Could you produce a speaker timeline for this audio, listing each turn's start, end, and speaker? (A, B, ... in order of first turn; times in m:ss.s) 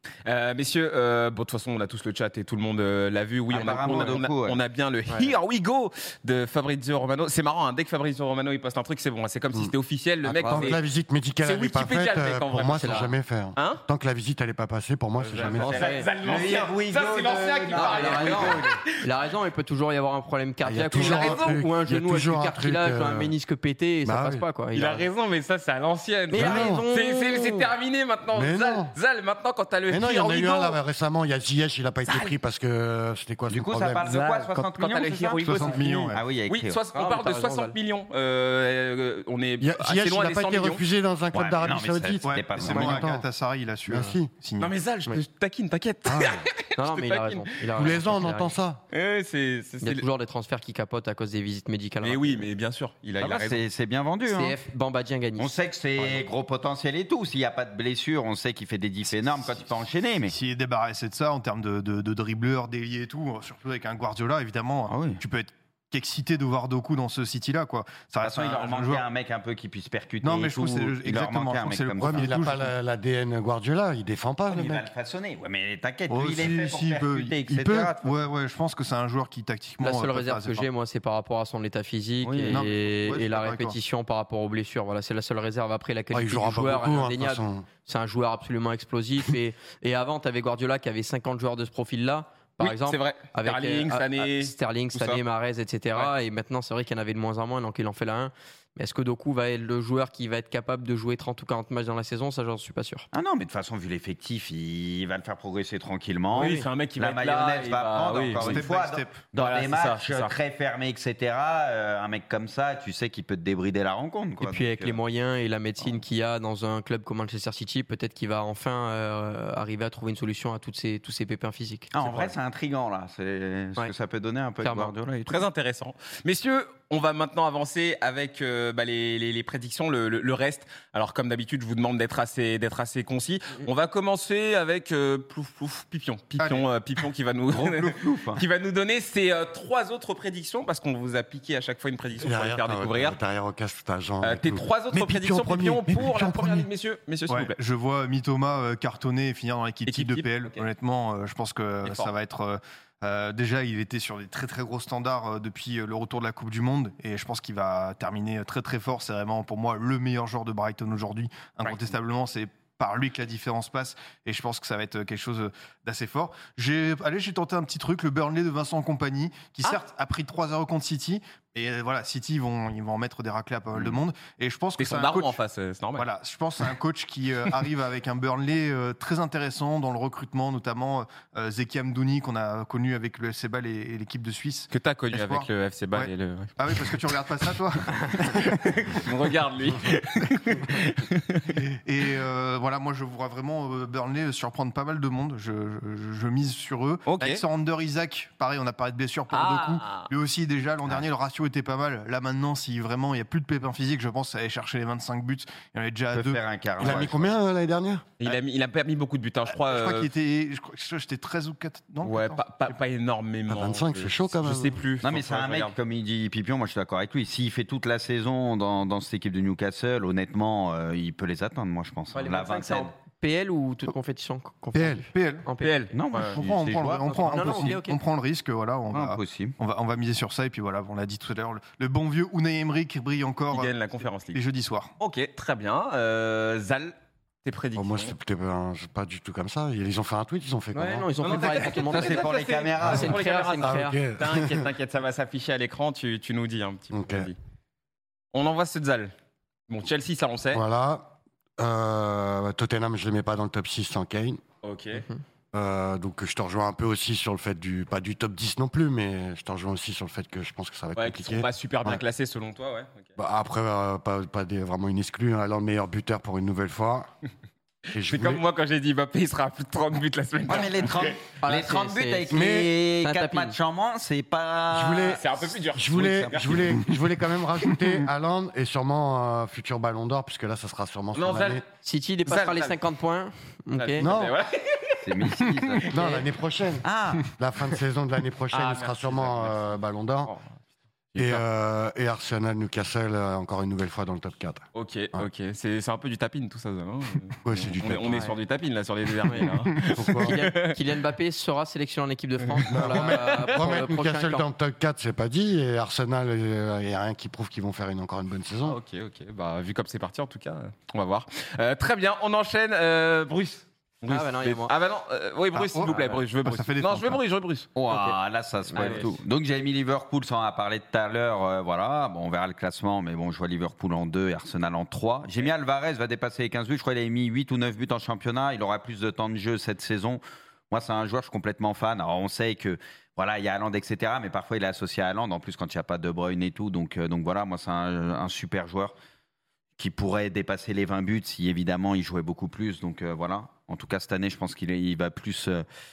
0:00.2-0:10.8 A
0:03.5-0:04.6 B
0:10.2-0:15.7 C
0:10.4-0:10.7 D
0:11.4-0:13.8 A
0:12.7-0:13.1 D
0:15.2-0:18.9 A
0:15.5-0:18.6 B
0:15.6-0:16.1 D
0:17.7-0:25.1 D
0:20.6-0:23.3 C
0:20.9-0:21.6 A
0:24.0-0:24.4 C
0:24.7-0:30.8 A
0:26.3-0:27.7 D
0:26.3-0:26.8 C
0:28.3-0:28.9 C
0:29.9-0:34.1 C
0:32.1-0:32.3 A
0:33.5-0:36.8 B
0:34.0-0:36.1 D
0:34.0-0:40.8 A
0:35.4-0:36.2 E
0:36.9-0:37.7 D
0:39.6-0:43.2 C
0:41.3-0:43.0 B
0:42.2-0:44.7 E
0:43.9-0:44.3 C
0:44.6-0:47.6 A
0:46.0-0:46.4 C
0:46.8-0:48.5 D
0:47.7-0:48.8 C
0:48.9-0:50.0 A
0:49.8-0:52.4 D
0:52.0-0:53.6 A
0:53.2-0:54.6 B
0:54.3-0:55.5 D
0:55.4-1:00.3 B
1:00.3-1:09.0 E
1:04.9-1:05.2 B
1:08.2-1:12.5 B
1:10.2-1:12.7 E
1:12.0-1:14.9 C
1:14.5-1:18.2 B
1:16.1-1:20.7 E
1:17.5-1:17.9 C
1:19.8-1:43.0 D
1:22.2-1:22.6 B
1:22.5-1:23.8 E
1:26.1-1:27.6 C
1:32.6-1:35.2 A
1:43.1-1:55.0 B
1:46.3-1:46.7 D
1:46.4-1:48.6 A
1:48.3-1:49.3 E
1:49.3-1:50.3 A
1:54.4-2:02.3 D
2:01.9-2:05.4 B
2:04.6-2:04.9 D
2:05.3-2:23.2 A
2:16.4-2:16.6 E
2:17.5-2:18.4 B
2:22.2-2:26.7 C
2:24.2-2:27.5 A
2:27.3-2:55.4 E
2:29.9-2:30.6 A
2:31.8-2:32.1 A
2:54.8-2:56.1 A
2:56.0-3:09.0 E
3:04.7-3:07.0 A
3:08.2-3:11.6 A
3:11.5-3:26.4 E
3:17.1-3:17.4 A
3:19.3-3:20.1 A
3:26.1-3:27.3 B
3:26.8-3:28.0 C
3:28.2-3:30.1 A
3:29.5-3:32.4 E
3:32.0-3:35.7 A
3:33.5-3:34.8 C
3:35.0-3:42.9 B
3:42.1-3:45.8 D
3:44.7-3:45.0 C
3:45.1-3:45.5 E
3:45.6-3:46.4 A
3:45.9-3:47.7 B
3:46.2-3:53.7 E
3:47.2-3:48.0 D
3:48.9-3:49.6 B
3:53.5-3:54.4 A
3:54.3-3:54.9 E
3:55.0-3:58.1 A
3:57.7-4:01.1 C
4:00.7-4:02.3 D
4:01.2-4:07.4 A
4:01.9-4:03.2 B
4:02.8-4:04.7 C
4:02.8-4:04.0 D
4:06.9-4:07.3 C
4:08.3-4:09.1 A
4:09.7-4:10.6 A
4:10.5-4:14.4 C
4:14.6-4:15.0 A
4:15.5-4:22.0 C
4:21.0-4:23.1 A
4:23.2-4:27.1 C
4:27.9-4:28.4 C
4:27.9-4:31.2 A
4:30.5-4:35.2 B
4:31.4-4:32.4 D
4:32.3-4:32.7 C
4:33.0-4:33.5 D
4:34.7-4:41.6 C
4:35.1-4:36.8 A
4:41.1-4:41.6 A
4:41.8-4:44.1 D
4:42.3-4:42.7 A
4:43.8-4:45.3 A
4:44.0-4:44.3 C
4:45.0-4:46.1 B
4:45.8-4:50.3 C
4:46.8-4:47.3 B
4:48.5-4:49.6 A
4:50.2-4:50.5 A
4:51.1-4:51.4 A
4:51.2-4:55.3 C
4:54.7-5:00.8 A
4:57.4-4:58.3 C
4:59.3-4:59.6 D
4:59.9-5:00.4 C
5:00.2-5:04.4 D
5:02.5-5:03.4 A
5:02.7-5:08.8 C
5:08.6-5:17.7 A
5:14.1-5:14.7 D
5:15.5-5:17.2 E
5:17.8-5:38.9 B
5:17.9-5:18.2 D
5:18.7-5:19.0 D
5:18.7-5:19.1 A
5:39.8-5:45.6 B